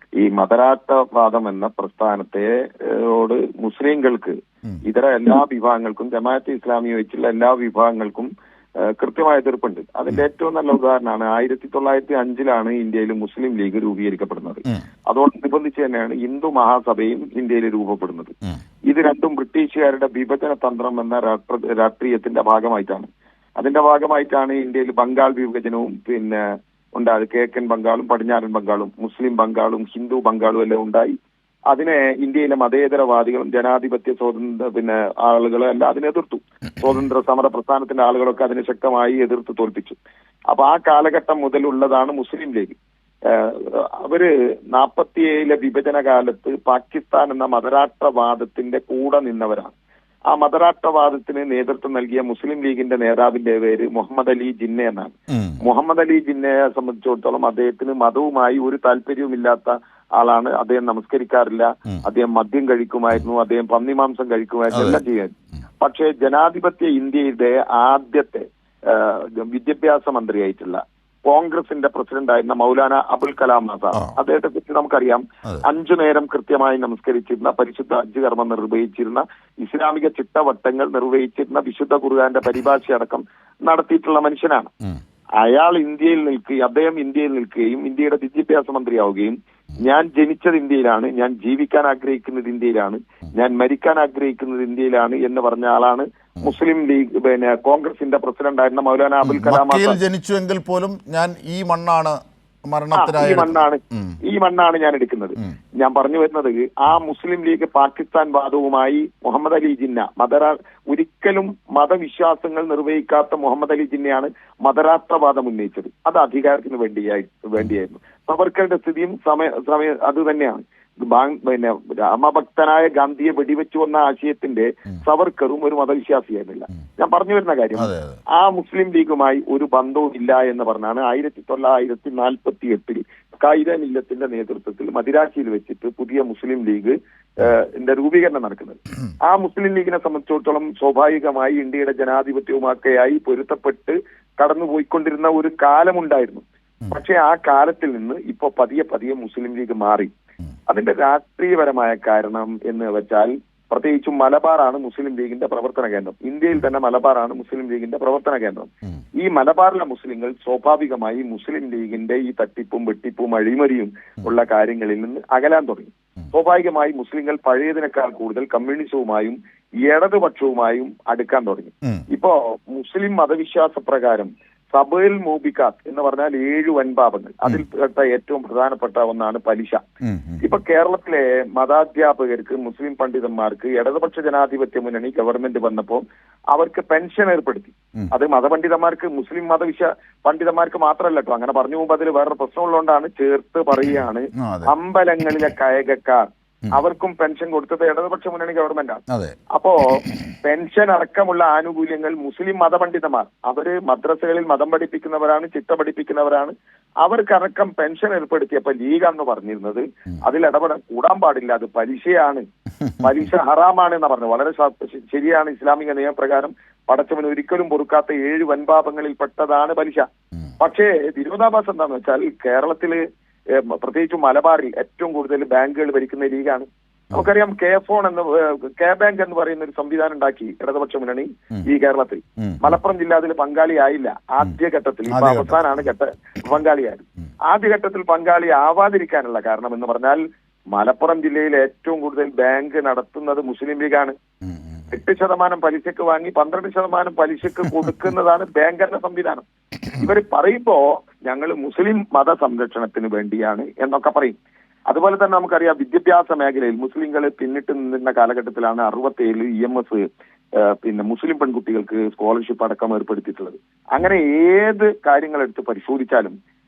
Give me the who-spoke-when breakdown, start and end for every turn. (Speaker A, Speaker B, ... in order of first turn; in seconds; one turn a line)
Speaker A: 0.2-18.3
Speaker A: 18.9-26.4
Speaker A: 26.9-31.2
Speaker A: 31.7-40.0
Speaker A: 40.5-49.7
Speaker A: 50.3-84.7
Speaker B: 55.3-55.6
Speaker B: 64.7-65.0
Speaker A: 85.4-100.0
Speaker B: 99.2-104.2
Speaker A: 102.9-150.1
Speaker B: 127.8-128.2
Speaker A: 150.7-179.8
Speaker B: 180.1-180.4
Speaker A: 180.4-199.0
Speaker B: 194.4-194.7
Speaker B: 199.1-199.3
Speaker A: 199.5-212.4
Speaker A: 213.0-220.1
Speaker A: 220.6-223.0
Speaker A: 223.5-240.2
Speaker B: 235.1-235.6
Speaker A: 240.8-244.2
Speaker A: 244.9-254.3
Speaker A: 254.9-260.1
Speaker A: 260.6-266.3